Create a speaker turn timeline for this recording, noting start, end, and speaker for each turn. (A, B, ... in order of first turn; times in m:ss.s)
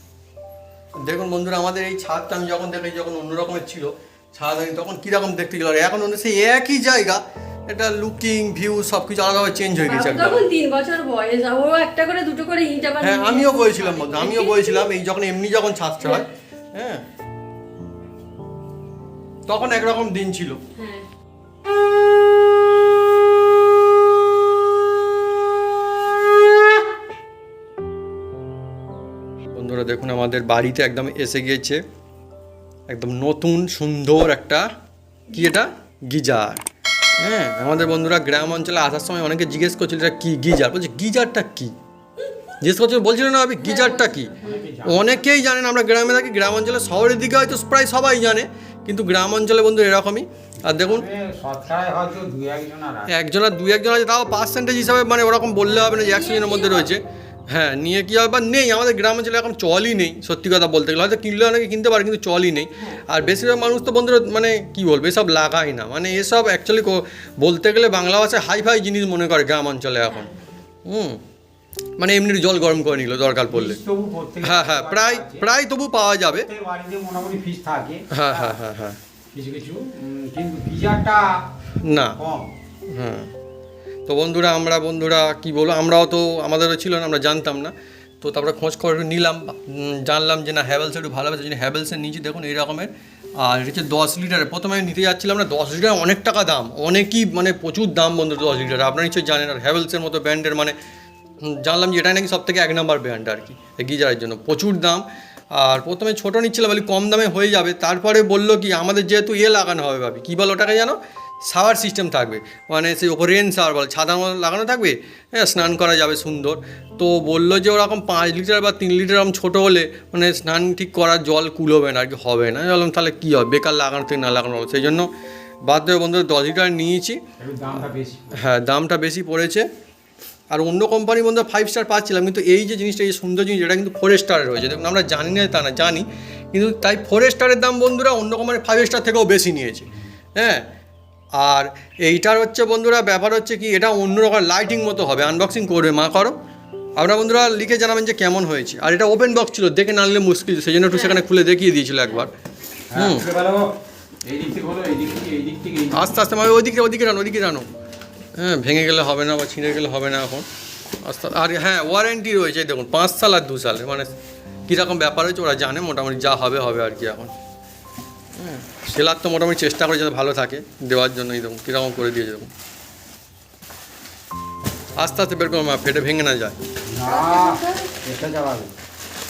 0:01.0-0:10.4 A
0:09.8-0:14.9 B
0:13.0-0:17.0 A
0:16.0-0:16.2 B
0:19.5-0:20.6 A
0:20.8-0:21.0 B
0:29.5-0:31.8 A
0:32.9-0:34.7 A
0:35.3-0:35.6 B
0:35.3-0:36.6 A
0:37.2-0:41.7 A
0:42.6-0:44.3 A
0:43.6-0:44.7 B
0:44.4-0:45.2 C
0:44.9-0:51.1 A
0:50.6-0:53.1 C
0:53.1-1:10.3 A
0:55.8-0:56.9 B
1:10.0-1:10.6 B
1:10.8-1:11.2 A
1:12.0-1:13.8 A
1:13.5-1:15.5 C
1:14.4-1:16.5 A
1:16.3-1:18.6 C
1:18.1-1:19.0 A
1:19.3-1:21.4 C
1:21.8-1:22.2 A
1:22.2-1:22.5 C
1:22.9-1:23.3 A
1:24.1-1:40.7 A
1:41.4-1:45.0 A
1:45.6-1:51.0 A
1:51.5-2:05.1 A
2:05.6-2:07.2 A
2:07.4-2:08.3 C
2:08.4-2:09.6 A
2:10.5-2:19.8 A
2:20.4-2:20.6 A
2:21.4-2:26.4 A
2:27.0-2:32.3 A
2:30.9-2:31.2 B
2:32.9-2:33.7 C
2:33.0-2:33.3 A
2:34.2-2:36.0 C
2:35.9-2:37.7 A
2:38.4-2:40.4 A
2:41.0-2:44.1 A
2:44.7-2:47.3 A
2:48.4-2:52.5 A
2:55.0-2:56.6 A
2:56.9-2:58.7 C
2:57.0-2:57.9 B